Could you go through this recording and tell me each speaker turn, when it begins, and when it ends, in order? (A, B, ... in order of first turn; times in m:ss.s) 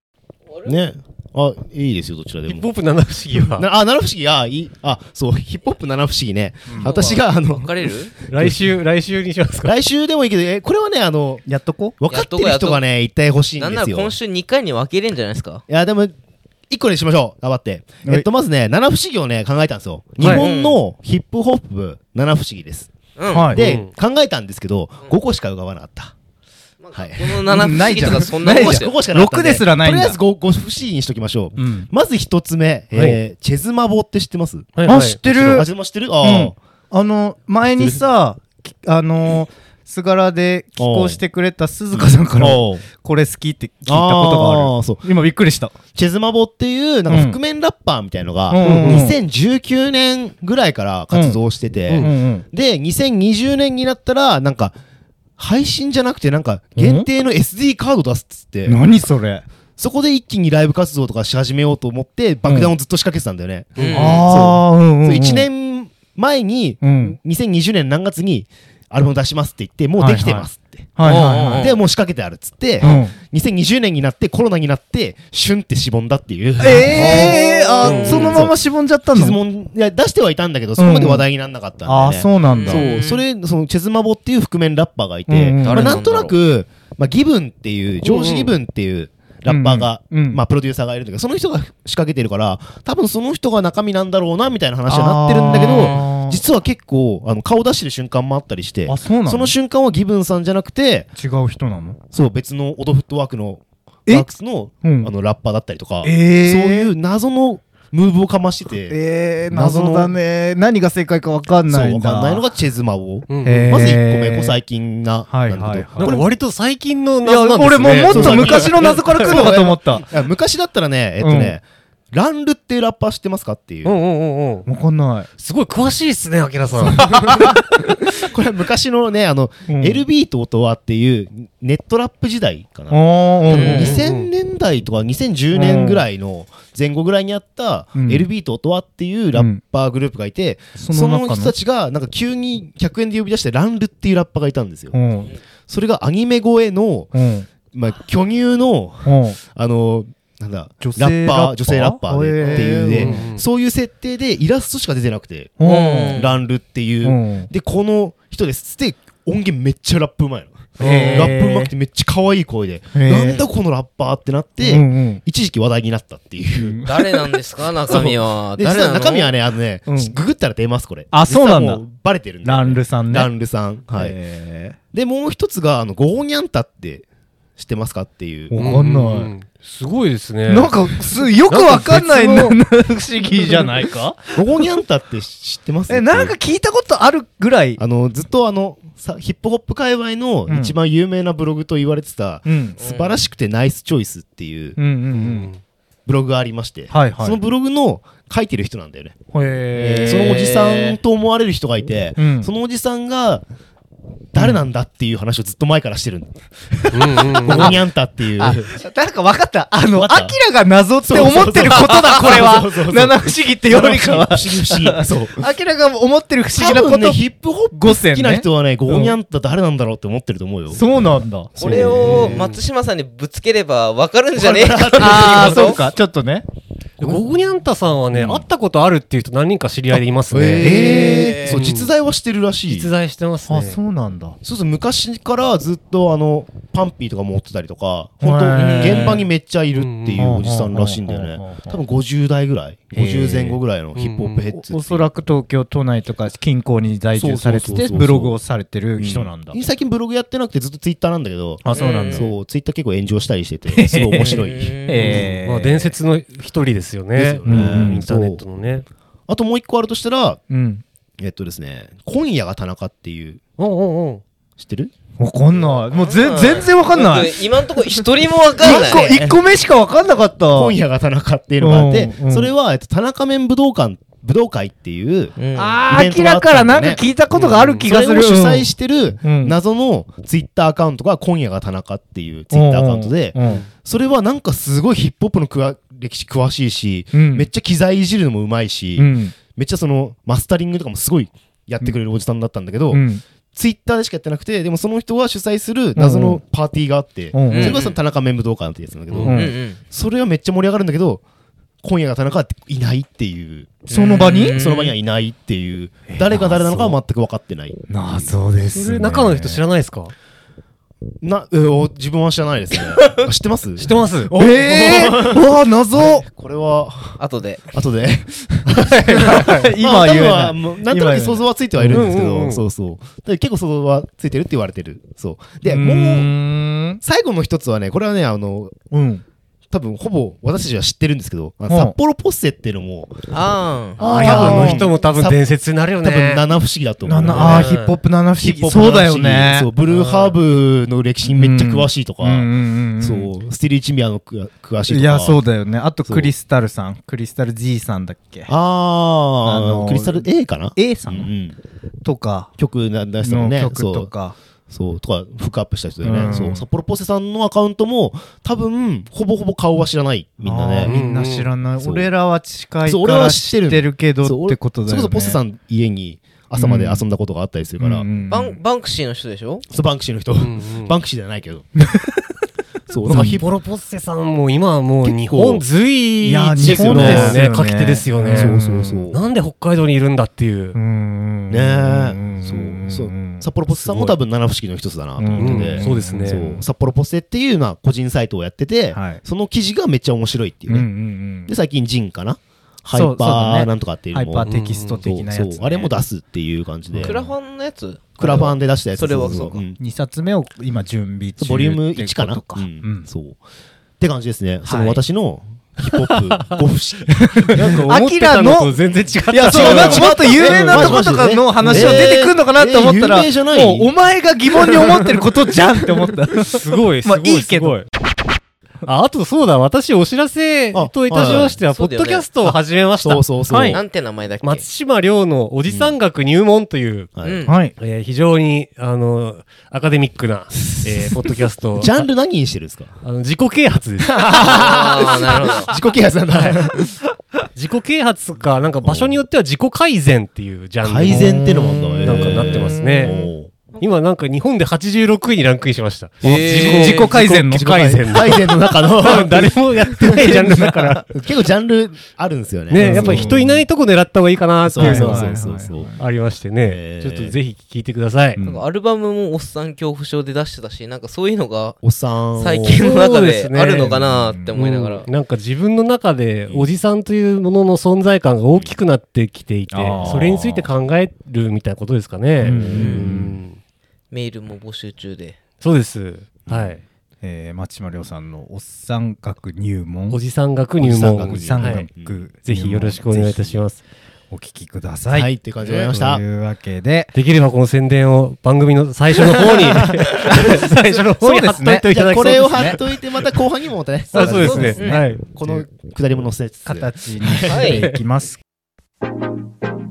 0:00.6-0:02.7 A
0:02.5-0:03.6 B
0:03.4-0:08.7 A
0:06.8-0:08.1 C
0:08.3-0:09.7 B
0:09.6-0:11.4 A
0:11.4-0:12.0 D
0:12.0-0:14.1 A
0:12.1-0:12.8 C
0:13.6-0:15.6 C
0:15.7-0:16.1 A
0:16.7-0:22.9 A
0:20.2-0:20.4 B
0:20.2-0:20.8 C
0:23.2-0:23.6 C
0:23.3-0:23.6 D
0:23.5-0:26.1 A
0:23.5-0:23.9 B
0:26.8-0:28.9 C
0:26.9-0:36.5 A
0:27.5-0:30.2 D
0:31.6-0:31.9 D
0:32.9-0:33.2 B
0:34.8-0:35.6 B
0:34.8-0:35.7 D
0:36.2-0:45.7 D
0:40.8-0:41.2 A
0:41.9-0:42.8 A
0:43.8-0:45.0 A
0:45.9-0:54.8 A
0:47.1-0:47.4 D
0:48.5-0:49.2 D
0:48.6-0:49.0 B
0:51.1-0:51.4 D
0:52.0-0:52.4 D
0:55.4-0:58.8 A
0:56.8-0:57.1 D
0:58.6-0:59.4 D
0:59.8-1:18.6 A
1:02.4-1:02.7 D
1:03.8-1:04.1 B
1:03.8-1:04.3 C
1:03.9-1:05.5 D
1:06.8-1:07.2 D
1:10.0-1:11.7 D
1:11.0-1:11.8 C
1:12.8-1:13.1 D
1:16.6-1:19.4 D
1:16.9-1:18.3 C
1:17.8-1:18.4 B
1:19.1-1:41.1 A
1:20.8-1:21.2 D
1:21.8-1:22.9 D
1:22.5-1:23.2 C
1:25.3-1:26.0 D
1:25.6-1:26.3 C
1:28.0-1:28.5 B
1:29.4-1:30.4 D
1:34.9-1:36.4 D
1:35.5-1:36.1 C
1:38.9-1:39.5 D
1:41.2-1:42.0 D
1:42.1-1:49.0 A
1:44.8-1:45.1 D
1:46.0-1:46.9 D
1:48.9-1:52.4 D
1:49.5-1:50.2 A
1:51.7-1:56.3 A
1:53.3-1:53.7 B
1:53.4-1:54.6 D
1:55.3-1:56.2 D
1:56.0-1:59.3 B
1:57.2-2:00.0 D
1:58.0-2:03.9 A
2:01.2-2:01.6 D
2:03.8-2:04.7 B
2:04.6-2:05.3 D
2:05.4-2:07.1 B
2:07.0-2:07.9 D
2:07.0-2:25.0 A
2:09.7-2:10.0 D
2:12.9-2:13.9 D
2:13.5-2:14.0 C
2:13.6-2:14.3 B
2:15.5-2:16.0 D
2:17.9-2:18.3 D
2:19.3-2:19.6 D
2:20.8-2:21.5 D
2:24.9-2:25.3 D
2:25.7-2:27.1 A
2:27.1-2:27.5 D
2:27.7-2:35.6 A
2:29.0-2:29.4 D
2:30.8-2:33.3 D
2:32.9-2:33.4 B
2:35.6-2:36.2 D
2:35.6-2:36.3 C
2:36.1-2:46.8 A
2:37.0-2:37.5 D
2:40.8-2:41.7 D
2:40.8-2:41.3 B
2:40.8-2:41.1 C
2:42.9-2:43.4 D
2:44.6-2:45.2 D
2:46.5-2:47.0 D
2:46.8-2:49.3 C
2:47.8-2:54.2 A
2:49.9-2:50.1 D
2:51.1-2:51.8 D
2:52.4-2:53.3 D
2:53.9-2:54.8 D
2:54.9-2:57.0 A
2:57.6-2:58.6 A
2:58.5-2:59.3 D
2:58.6-3:02.6 B
3:00.5-3:04.4 D
3:04.3-3:06.3 A
3:05.9-3:07.8 D
3:07.8-3:14.8 A
3:10.5-3:10.8 D
3:12.4-3:12.8 D
3:12.8-3:13.2 C
3:14.8-3:15.5 D
3:15.1-3:15.6 B
3:16.0-3:19.2 A
3:16.9-3:17.4 D
3:19.3-3:20.3 D
3:19.7-3:23.4 A
3:19.8-3:21.0 C
3:22.2-3:22.5 D
3:24.3-3:28.7 A
3:24.4-3:24.6 D
3:26.9-3:27.8 B
3:28.4-3:39.2 D
3:29.9-3:30.3 A
3:31.0-3:35.5 A
3:36.5-3:40.8 A
3:40.7-3:42.1 D
3:41.5-3:42.4 A
3:41.6-3:45.8 C
3:41.7-3:42.6 B
3:44.3-3:45.8 A
3:44.9-3:46.4 D
3:47.0-3:50.8 B
3:48.1-3:48.5 A
3:50.3-3:52.9 A
3:50.6-3:51.4 D
3:50.6-3:51.6 C
3:51.4-3:51.9 B
3:52.7-3:53.8 B
3:53.5-3:54.4 D
3:54.4-4:05.1 A
3:58.2-3:59.2 D
3:58.6-3:59.2 C
3:59.7-4:00.3 B
4:00.2-4:01.8 D
4:02.9-4:03.6 D
4:04.0-4:04.4 B
4:04.5-4:09.6 D
4:07.1-4:08.4 A
4:09.0-4:15.2 A
4:11.6-4:12.3 D
4:11.7-4:12.3 C
4:13.7-4:16.0 D
4:14.2-4:15.3 C
4:15.0-4:18.8 B
4:17.2-4:18.4 A
4:17.4-4:18.0 D
4:19.3-4:20.4 A
4:20.5-4:20.8 D
4:21.2-4:23.4 A
4:23.6-4:24.2 B
4:24.6-4:24.9 A
4:25.2-4:28.0 D
4:25.6-4:29.2 C
4:28.6-4:30.8 D
4:28.6-4:29.4 A
4:30.5-4:35.4 A
4:31.6-4:32.5 D
4:35.4-4:35.8 C
4:35.5-4:38.7 D
4:35.9-4:37.0 A
4:37.4-4:37.8 B
4:37.8-5:01.2 A
4:39.2-4:39.6 D
4:42.5-4:43.6 D
4:43.4-4:43.7 B
4:47.1-4:47.5 D
4:49.0-4:49.4 D
4:52.9-4:53.2 D
4:56.0-4:56.4 D
4:57.3-4:57.8 D
4:57.5-4:58.0 C
4:59.2-4:59.8 C
4:59.2-4:59.5 D
5:01.8-5:03.8 A
5:03.9-5:04.6 D
5:03.9-5:04.9 C
5:04.4-5:08.3 A
5:06.1-5:07.0 D
5:07.9-5:09.6 D
5:08.7-5:10.1 B
5:11.2-5:17.2 A
5:13.8-5:14.3 B
5:14.3-5:16.2 D
5:17.2-5:17.7 C
5:17.7-5:26.3 A
5:18.8-5:22.1 D
5:21.9-5:22.6 B
5:25.6-5:27.0 D
5:27.0-5:28.7 A
5:28.9-5:29.2 D
5:29.7-5:33.4 A
5:31.7-5:31.9 D
5:33.3-5:34.5 C
5:34.0-5:36.4 B
5:34.0-5:34.9 D
5:34.0-5:35.4 A
5:36.0-5:37.8 A
5:37.0-5:39.7 D
5:37.2-5:38.0 B
5:38.4-5:45.4 A
5:39.9-5:40.3 B
5:41.2-5:43.3 D
5:44.9-5:48.5 D
5:46.0-5:46.3 A
5:48.5-5:51.6 A
5:49.4-5:51.3 D
5:52.0-5:52.5 D
5:52.6-5:54.1 A
5:53.2-5:54.4 D
5:54.7-6:01.0 A
5:56.0-5:56.6 D
6:00.4-6:05.4 D
6:00.8-6:01.5 B
6:01.8-6:02.1 A
6:02.8-6:08.1 A
6:06.6-6:07.0 D
6:07.8-6:08.6 D
6:08.3-6:09.6 C
6:09.7-6:11.7 A
6:10.4-6:11.0 B
6:11.8-6:12.2 D
6:12.9-6:13.4 A
6:13.1-6:18.6 B
6:13.1-6:13.4 D
6:15.0-6:15.6 A
6:16.2-6:19.0 D
6:16.6-6:17.4 A
6:18.2-6:19.2 A
6:19.1-6:20.8 B
6:20.7-6:23.4 D
6:21.5-6:30.9 A
6:23.8-6:24.1 B
6:25.2-6:26.6 D
6:25.4-6:26.4 B
6:28.9-6:29.2 D
6:30.7-6:31.5 D
6:31.4-6:37.3 A
6:32.9-6:35.9 D
6:34.4-6:35.0 B
6:37.0-6:39.6 C
6:38.2-6:39.8 A
6:39.8-6:43.1 D
6:41.4-6:43.4 A
6:44.0-6:47.7 A
6:44.6-6:45.0 D
6:46.1-6:46.6 B
6:47.3-6:48.8 D
6:47.5-6:51.0 B
6:49.3-6:57.8 D
6:49.4-6:53.9 A
6:51.6-6:52.0 B
6:56.5-6:57.8 B
6:58.8-7:03.2 B
7:00.7-7:01.6 A
7:01.3-7:02.2 C
7:03.0-7:03.8 A
7:03.5-7:03.8 D
7:03.7-7:04.6 C
7:04.4-7:07.1 B
7:05.7-7:05.9 A
7:07.2-7:07.5 A
7:07.2-7:07.5 C
7:07.4-7:07.7 D
7:07.8-7:12.0 B
7:10.6-7:11.2 A
7:11.8-7:12.9 A
7:13.0-7:14.8 B
7:14.0-7:17.0 A
7:14.3-7:15.7 C
7:17.6-7:23.2 B
7:18.8-7:19.2 A
7:20.8-7:23.5 A
7:21.1-7:22.5 D
7:22.5-7:23.3 C
7:23.8-7:31.1 B
7:26.2-7:28.4 D
7:26.2-7:27.1 C
7:26.3-7:30.1 A
7:30.1-7:31.1 D
7:31.1-7:33.5 A
7:32.7-7:35.4 B
7:32.8-7:33.6 D
7:34.6-7:35.9 A
7:34.8-7:36.0 D
7:36.0-7:38.4 B
7:36.6-7:37.4 A
7:38.4-7:38.6 D
7:38.4-7:41.8 C
7:41.8-7:42.8 A
7:42.4-7:45.1 C
7:42.7-7:44.0 B
7:43.9-7:44.5 D
7:44.5-7:53.6 B
7:49.7-7:50.2 D
7:50.0-7:50.7 A
7:52.4-7:53.2 A
7:52.4-7:53.4 D
7:52.7-7:53.1 C
7:54.1-7:55.4 C
7:55.6-7:56.8 B
7:56.5-7:56.8 A
7:57.2-8:00.2 D
8:00.1-8:01.8 B
8:00.8-8:02.2 A
8:01.1-8:03.2 D
8:02.5-8:03.8 B
8:03.0-8:03.6 A
8:04.3-8:05.3 D
8:05.1-8:06.2 A
8:05.6-8:05.9 C
8:05.9-8:07.1 D
8:07.1-8:13.0 B
8:09.8-8:12.8 D
8:11.9-8:17.8 A
8:14.1-8:15.3 B
8:14.1-8:15.6 D
8:14.4-8:15.0 C
8:16.6-8:18.4 D
8:17.5-8:17.8 C
8:17.5-8:18.0 B